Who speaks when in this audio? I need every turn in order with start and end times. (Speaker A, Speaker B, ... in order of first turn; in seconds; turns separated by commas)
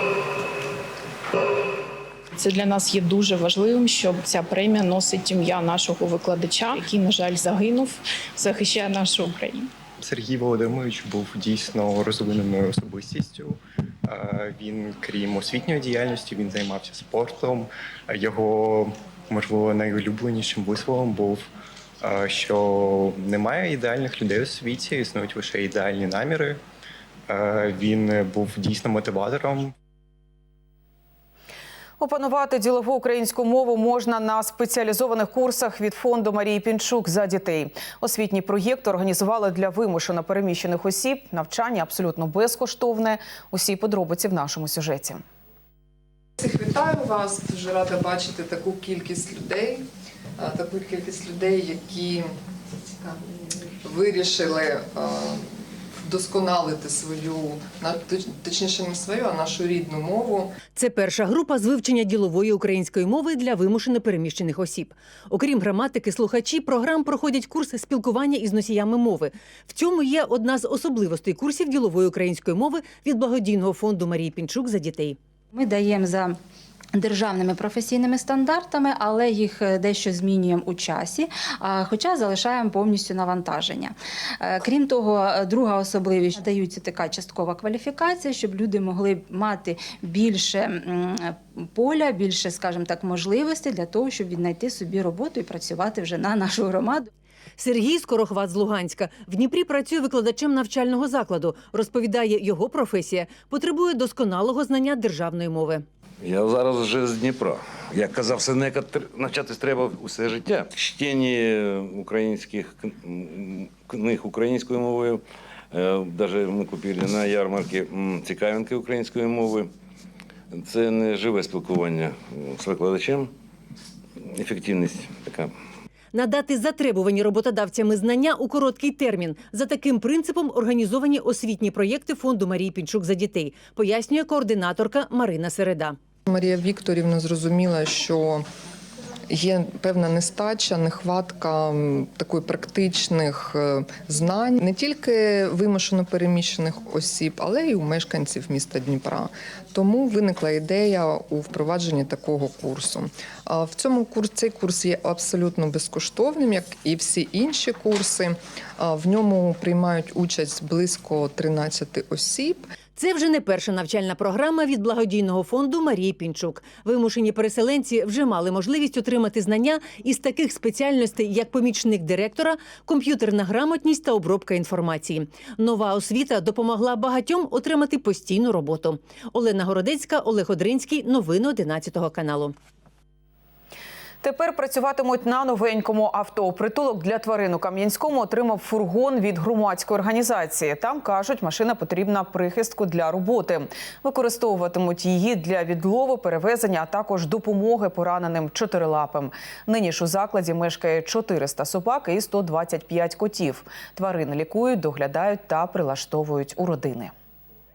Speaker A: 2.4-9.7, Speaker B: 10.0-21.4, Speaker B: 22.0-26.6, Speaker B: 27.3-29.7, Speaker C: 32.0-45.2, Speaker D: 46.4-49.9, Speaker D: 50.4-52.3, Speaker D: 53.0-55.5, Speaker D: 56.0-60.5, Speaker E: 60.7-75.2, Speaker F: 75.5-76.4, Speaker F: 76.9-97.1, Speaker E: 97.6-105.8, Speaker G: 106.2-115.2, Speaker G: 115.7-119.7, Speaker G: 120.5-123.3, Speaker G: 124.3-125.5, Speaker E: 126.1-135.9, Speaker D: 136.3-138.4, Speaker D: 139.3-162.7, Speaker E: 162.9-182.5, Speaker C: 184.2-207.1